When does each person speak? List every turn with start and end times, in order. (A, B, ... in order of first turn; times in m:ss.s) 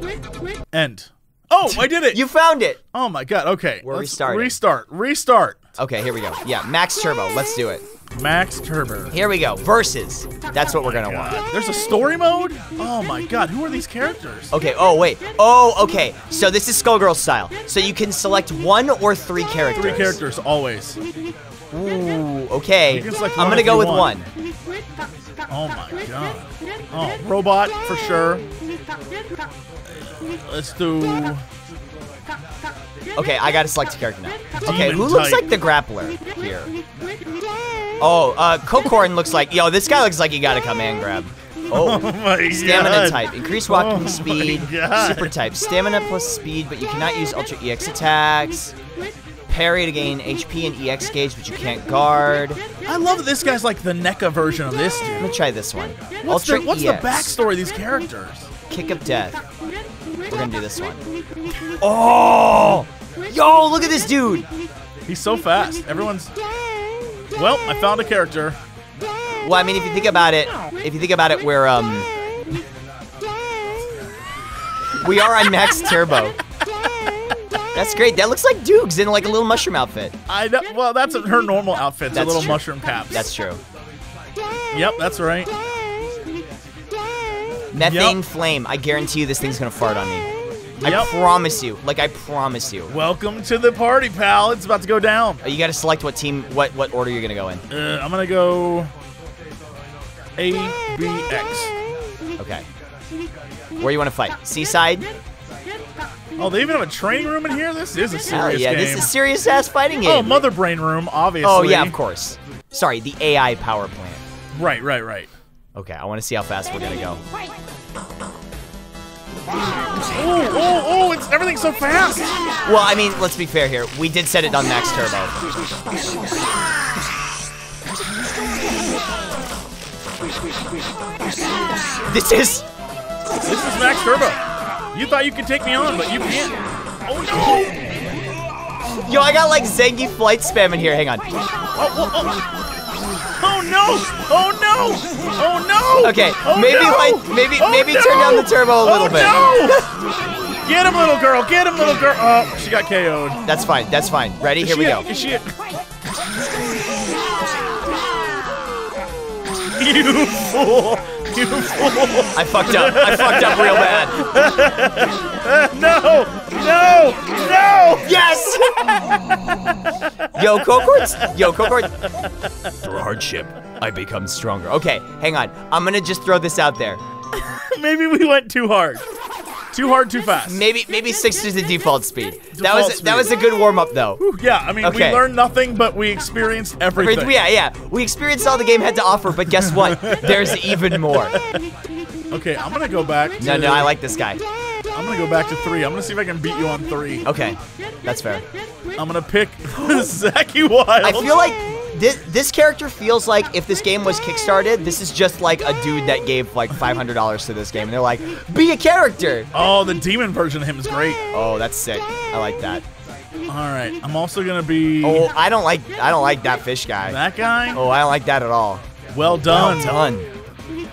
0:00.7-0:02.2 A
0:01.7-0:02.8 B
0:02.9-0:05.6 A
0:03.8-0:04.6 B
0:05.8-0:07.8 B
0:08.1-0:09.1 A
0:09.1-0:11.4 B
0:10.8-0:14.5 A
0:14.5-0:20.2 B
0:19.7-0:21.0 A
0:21.7-0:24.3 B
0:22.9-0:24.1 A
0:25.5-0:28.4 A
0:29.9-0:31.4 A
0:33.2-0:36.7 B
0:34.6-0:35.5 A
0:38.0-0:48.7 B
0:41.7-0:45.3 A
0:49.5-0:52.6 B
0:52.8-0:55.3 A
0:55.2-0:57.3 B
0:56.2-0:58.5 A
0:58.7-0:59.4 B
1:00.3-1:01.0 B
1:01.8-1:04.5 B
1:05.1-1:06.3 A
1:07.4-1:08.6 A
1:09.4-1:12.1 B
1:15.0-1:16.4 B
1:17.8-1:20.1 B
1:20.3-1:23.3 A
1:22.1-1:23.6 B
1:24.7-1:25.5 A
1:27.7-1:30.3 B
1:27.8-1:28.2 A
1:30.8-1:31.1 A
1:30.8-1:32.9 B
1:32.9-1:35.4 A
1:35.4-1:37.6 B
1:37.7-1:38.9 A
1:40.4-1:41.7 A
1:42.4-1:42.7 B
1:43.8-1:45.1 B
1:46.4-1:49.1 A
1:48.3-1:50.4 B
1:50.0-1:52.0 A
1:51.4-1:54.2 B
1:54.5-1:55.3 A
1:55.8-1:57.2 B
2:00.1-2:02.4 A
2:02.6-2:05.4 B
2:12.1-2:12.6 B
2:13.5-2:14.4 A
2:14.9-2:16.5 A
2:17.1-2:17.9 A
2:19.0-2:21.2 B
2:21.8-2:22.4 A
2:23.4-2:29.8 A
2:26.0-2:29.9 B
2:30.6-2:33.4 A
2:33.4-2:35.1 B
2:34.6-2:35.5 A
2:39.8-2:48.2 A
2:42.4-2:44.1 B
2:48.0-2:48.7 B
2:48.8-2:49.1 A
2:50.4-2:51.9 B
2:50.6-2:52.1 A
2:52.8-2:57.0 B
2:57.4-2:59.0 A
2:59.7-3:00.6 A
3:00.5-3:04.2 B
3:02.6-3:03.4 A
3:04.2-3:07.4 A
3:04.8-3:05.2 B
3:07.0-3:11.4 B
3:09.5-3:11.6 A
3:12.3-3:13.9 A
3:13.4-3:14.4 B
3:15.0-3:17.2 A
3:17.2-3:18.4 B
3:19.0-3:21.4 A
3:19.8-3:20.1 B
3:21.0-3:29.5 B
3:29.5-3:31.2 A
3:31.3-3:32.8 B
3:33.5-3:35.3 A
3:35.0-3:37.2 B
3:37.0-3:37.8 A
3:37.7-3:40.3 B
3:39.1-3:40.0 A